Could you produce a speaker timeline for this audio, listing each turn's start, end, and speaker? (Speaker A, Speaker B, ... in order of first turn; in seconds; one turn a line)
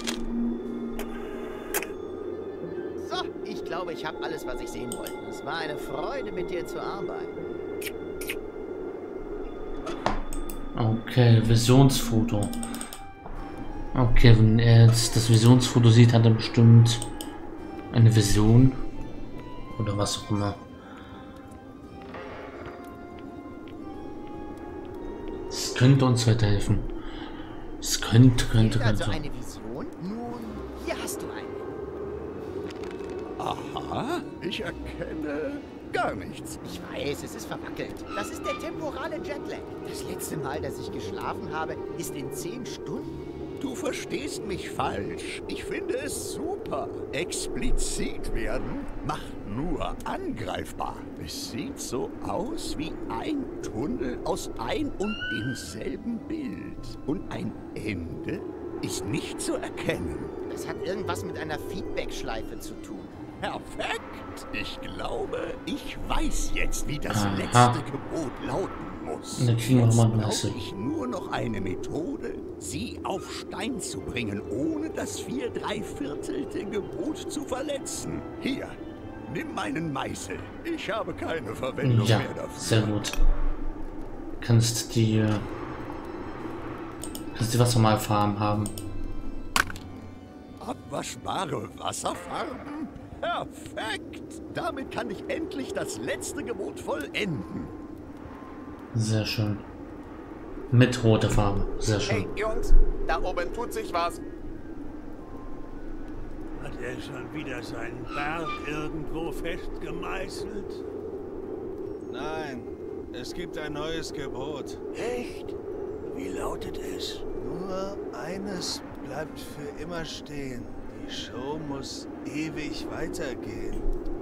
Speaker A: 3.0-7.3
Speaker B: 10.8-12.6
Speaker B: 13.9-17.1
Speaker B: 17.9-18.8
Speaker B: 19.7-20.6
Speaker B: 25.5-26.9
Speaker B: 27.8-29.2
Speaker A: 28.6-31.7
Speaker C: 33.4-36.6
Speaker A: 36.6-43.3
Speaker C: 43.6-60.3
Speaker A: 60.5-63.2
Speaker C: 63.4-83.0
Speaker B: 67.1-67.8
Speaker B: 69.4-70.6
Speaker B: 81.8-83.2
Speaker B: 84.4-85.5
Speaker B: 87.3-88.8
Speaker C: 90.6-97.8
Speaker B: 98.9-99.7
Speaker B: 100.7-102.3
Speaker D: 102.1-104.2
Speaker E: 106.6-110.8
Speaker F: 112.1-114.8
Speaker E: 114.9-115.5
Speaker E: 116.1-117.2
Speaker F: 117.3-123.9